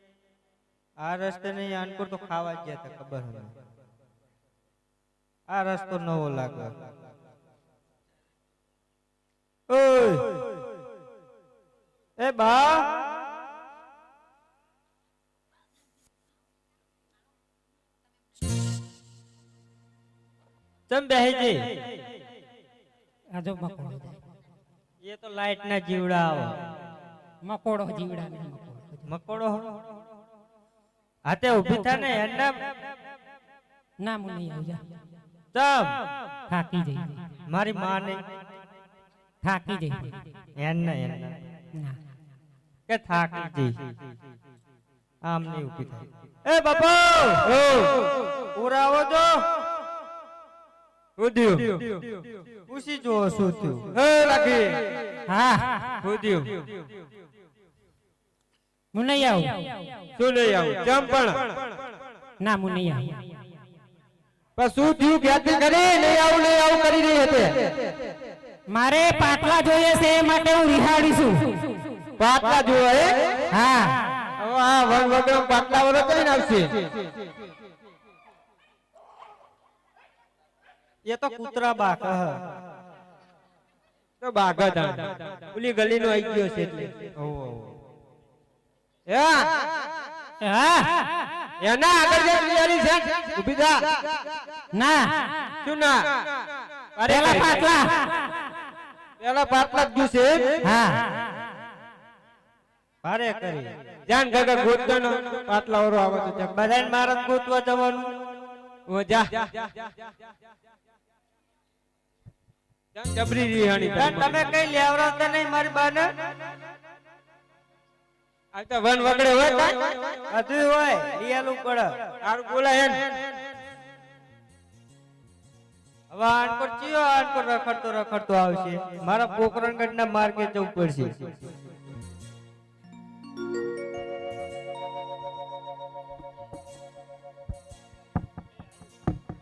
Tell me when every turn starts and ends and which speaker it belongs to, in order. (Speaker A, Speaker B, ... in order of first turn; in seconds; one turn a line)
Speaker A: 1.0-3.5
Speaker A: 5.5-6.7
Speaker A: 9.7-10.4
Speaker A: 12.2-12.9
Speaker A: 20.9-21.6
Speaker B: 23.4-24.2
Speaker A: 25.0-26.6
Speaker B: 27.4-29.1
Speaker A: 29.1-29.9
Speaker A: 31.3-32.5
Speaker B: 34.0-34.8
Speaker A: 35.5-35.9
Speaker B: 36.5-37.2
Speaker A: 37.5-38.2
Speaker B: 39.4-40.1
Speaker A: 40.6-41.3
Speaker A: 42.9-43.8
Speaker A: 45.2-47.5
Speaker C: 47.5-48.1
Speaker A: 48.5-49.4
Speaker C: 51.2-52.0
Speaker A: 52.7-53.9
Speaker C: 53.9-54.8
Speaker B: 55.3-55.8
Speaker C: 56.0-56.7
Speaker B: 58.9-59.7
Speaker C: 60.2-61.6
Speaker B: 62.4-63.2
Speaker C: 64.6-67.7
Speaker B: 68.7-71.8
Speaker C: 72.2-73.4
Speaker B: 73.5-74.0
Speaker C: 74.4-76.9
Speaker A: 81.0-82.4
Speaker C: 84.2-87.7
Speaker C: 89.1-89.5
Speaker B: 90.4-91.1
Speaker C: 91.6-94.0
Speaker B: 94.7-95.2
Speaker C: 95.6-96.3
Speaker C: 97.0-97.7
Speaker B: 97.1-98.3
Speaker C: 99.2-100.6
Speaker B: 100.6-101.2
Speaker A: 103.0-103.7
Speaker C: 104.1-106.6
Speaker A: 106.5-108.1
Speaker C: 108.9-109.9
Speaker C: 113.0-114.4
Speaker A: 114.0-116.1
Speaker C: 118.5-120.2
Speaker A: 120.3-121.9
Speaker C: 122.2-123.0
Speaker A: 126.1-131.3